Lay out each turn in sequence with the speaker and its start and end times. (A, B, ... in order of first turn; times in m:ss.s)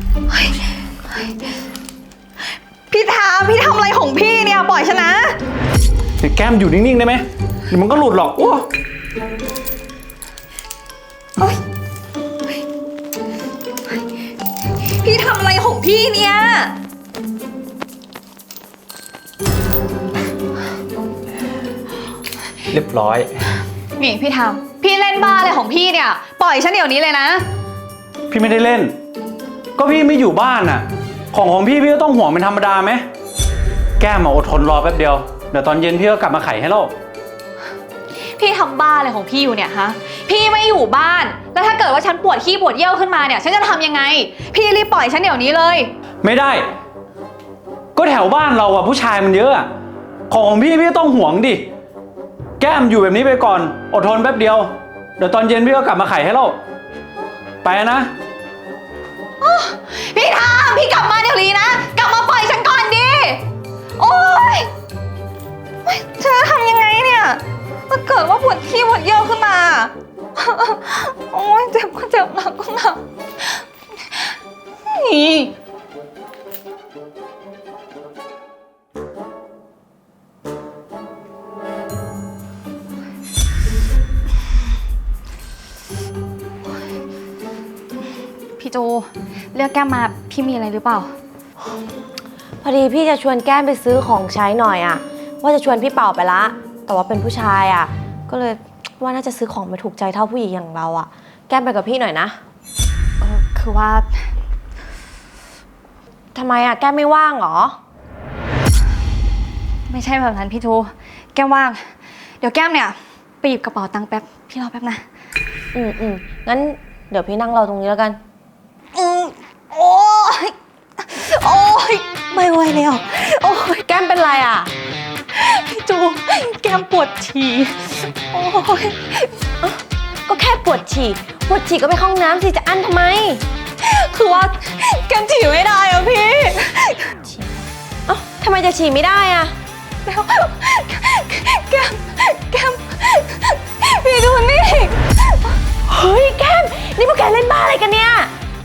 0:00.3-0:01.3 A
0:02.9-0:05.4 A
0:06.2-0:08.7 B
0:14.8-0:16.7 A
0:22.7-0:23.4 B
0:24.0-0:27.4 A
0:28.3-0:28.9 B
0:29.8-0:33.0 B
0:34.0-0:36.9 B
0:38.4-0:45.9 A
0:46.2-0:46.7 B
0:48.0-0:49.7 B
0:50.3-0:51.6 B
0:52.6-0:56.6 B
0:57.6-0:58.1 B
0:59.4-1:03.4 A
1:04.0-1:04.7 A
1:05.8-1:13.6 A
1:14.8-1:15.5 A
1:28.6-1:31.1 A
1:32.6-1:42.4 C
1:43.2-1:44.1 A
1:46.3-1:47.8 C
1:49.9-1:55.0 A
1:55.7-1:58.2 C
1:58.9-2:03.8 A
2:03.8-2:04.7 C
2:05.3-2:09.3 A
2:10.3-2:13.4 C
2:13.8-2:17.6 A
2:18.1-2:19.5 C
2:20.0-2:25.4 A
2:25.9-2:28.3 C